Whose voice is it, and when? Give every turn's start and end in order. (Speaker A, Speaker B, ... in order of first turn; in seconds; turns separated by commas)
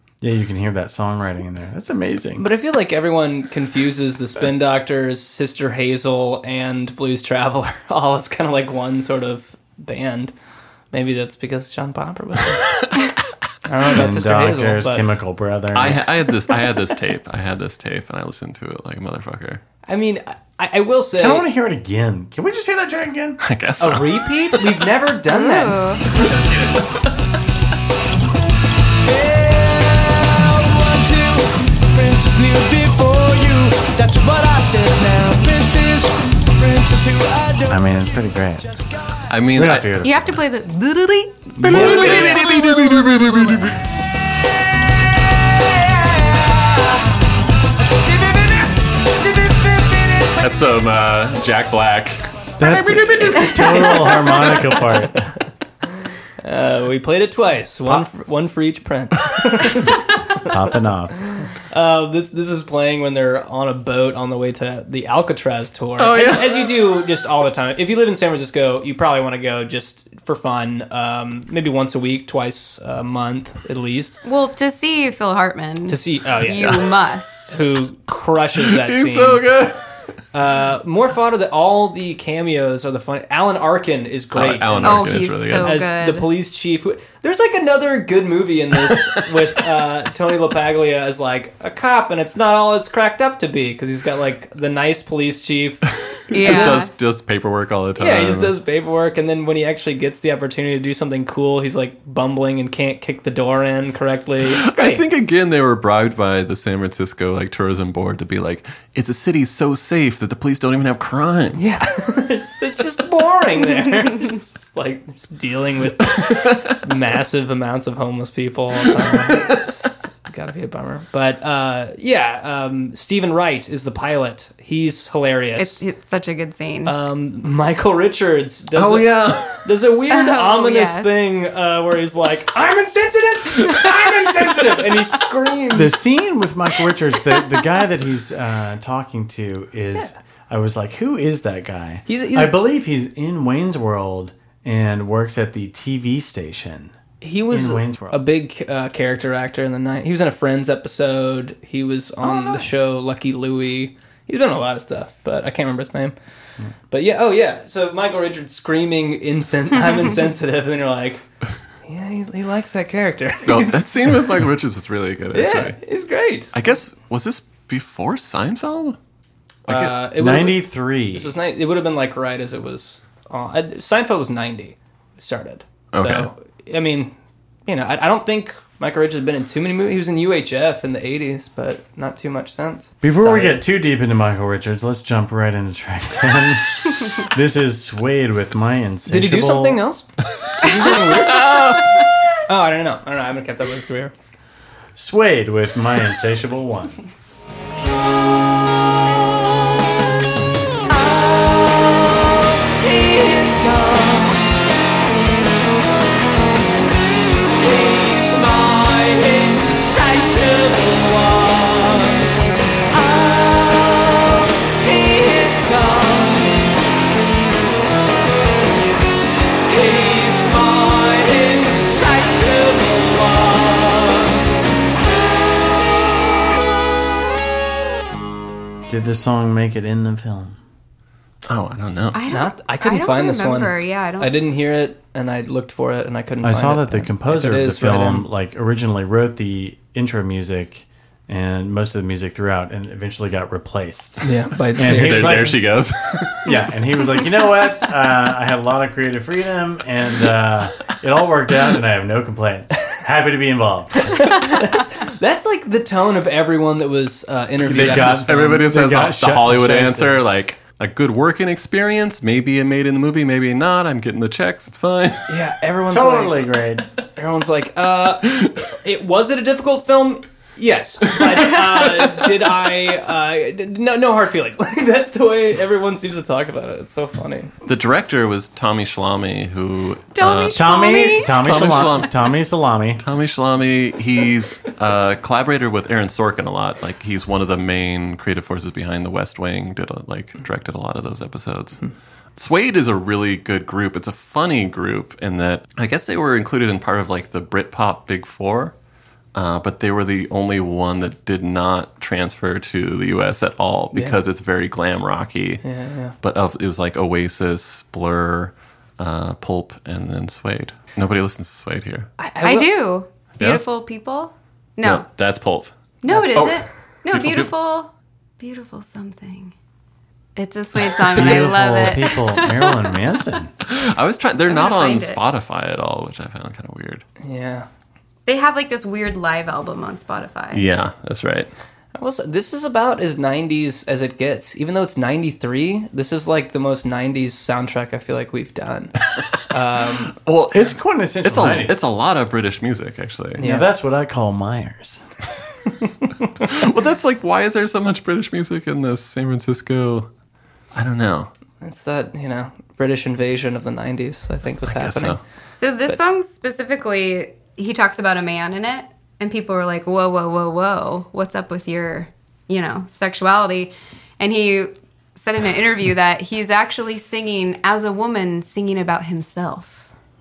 Speaker A: 0.2-2.5, Speaker B: 2.4-10.3, Speaker B: 10.9-12.8, Speaker B: 13.7-15.1, Speaker A: 13.8-16.1, Speaker C: 15.7-19.6, Speaker B: 19.9-21.5, Speaker A: 21.1-23.4, Speaker C: 23.4-24.9, Speaker B: 23.8-25.9, Speaker D: 25.3-26.1, Speaker C: 26.1-27.1, Speaker E: 29.0-39.3, Speaker A: 37.7-38.7, Speaker C: 39.3-40.0, Speaker A: 39.5-40.4, Speaker D: 40.0-41.9, Speaker B: 41.6-42.4, Speaker C: 41.7-43.8, Speaker E: 41.9-42.6, Speaker E: 45.6-47.1, Speaker E: 48.1-50.3, Speaker C: 50.4-52.2, Speaker A: 52.6-55.3, Speaker B: 52.6-55.2, Speaker B: 56.4-60.5, Speaker A: 60.5-61.2, Speaker B: 61.3-74.2, Speaker C: 66.0-66.7, Speaker D: 74.2-77.5, Speaker B: 75.9-77.0, Speaker B: 77.5-79.5, Speaker C: 78.7-79.8, Speaker B: 80.3-96.9, Speaker C: 84.3-85.8, Speaker D: 84.8-86.3, Speaker C: 96.3-98.5, Speaker D: 96.3-96.9, Speaker B: 98.0-105.0, Speaker C: 104.5-111.8, Speaker B: 111.6-125.8, Speaker C: 116.1-116.7, Speaker C: 119.0-119.6, Speaker D: 125.6-126.9, Speaker B: 126.8-136.0, Speaker C: 128.8-129.7, Speaker D: 130.1-131.2, Speaker A: 135.7-147.0, Speaker B: 142.1-142.6, Speaker B: 147.2-156.2, Speaker A: 147.5-148.2, Speaker D: 152.2-152.8, Speaker B: 156.9-161.2, Speaker B: 161.8-164.2, Speaker C: 163.4-165.8, Speaker B: 165.3-166.5, Speaker C: 166.5-169.0, Speaker B: 169.7-177.1, Speaker C: 169.7-170.0, Speaker A: 170.2-171.3, Speaker C: 175.9-176.3, Speaker B: 177.7-183.7, Speaker A: 183.0-189.8, Speaker B: 189.1-190.1, Speaker B: 190.6-191.8, Speaker C: 191.1-191.9, Speaker B: 192.5-194.1, Speaker A: 194.9-197.0, Speaker E: 200.9-204.4, Speaker E: 207.6-212.2, Speaker E: 212.9-216.9, Speaker E: 219.7-224.4, Speaker A: 228.9-230.6, Speaker C: 231.5-232.2, Speaker D: 232.1-234.3, Speaker B: 232.2-238.3, Speaker A: 236.4-245.6, Speaker B: 244.2-245.6, Speaker C: 244.8-246.5, Speaker A: 246.4-254.2, Speaker B: 254.0-258.4, Speaker A: 257.6-260.2, Speaker C: 257.8-265.2, Speaker B: 265.3-266.5, Speaker A: 265.9-266.9, Speaker B: 267.1-277.5, Speaker C: 277.7-280.7, Speaker D: 280.1-281.4, Speaker A: 280.5-283.0, Speaker C: 281.3-282.4, Speaker C: 283.0-291.8, Speaker C: 292.4-298.8, Speaker C: 299.4-305.6, Speaker B: 303.9-304.2, Speaker B: 305.6-306.1, Speaker C: 306.2-312.1, Speaker B: 312.2-312.9, Speaker D: 312.4-315.1, Speaker C: 314.8-317.5, Speaker D: 316.0-319.5, Speaker B: 316.1-316.6, Speaker D: 320.4-322.8, Speaker A: 321.1-323.5, Speaker C: 323.7-327.1, Speaker D: 324.5-325.2, Speaker B: 327.2-327.7, Speaker D: 328.3-330.6, Speaker C: 330.5-331.5, Speaker B: 331.9-338.9, Speaker B: 339.5-340.1, Speaker C: 340.2-343.4, Speaker A: 340.5-341.8, Speaker B: 343.4-343.7, Speaker A: 343.4-345.0, Speaker C: 346.4-350.1, Speaker C: 350.7-351.3, Speaker B: 351.6-355.2, Speaker C: 354.7-355.2, Speaker D: 355.6-369.9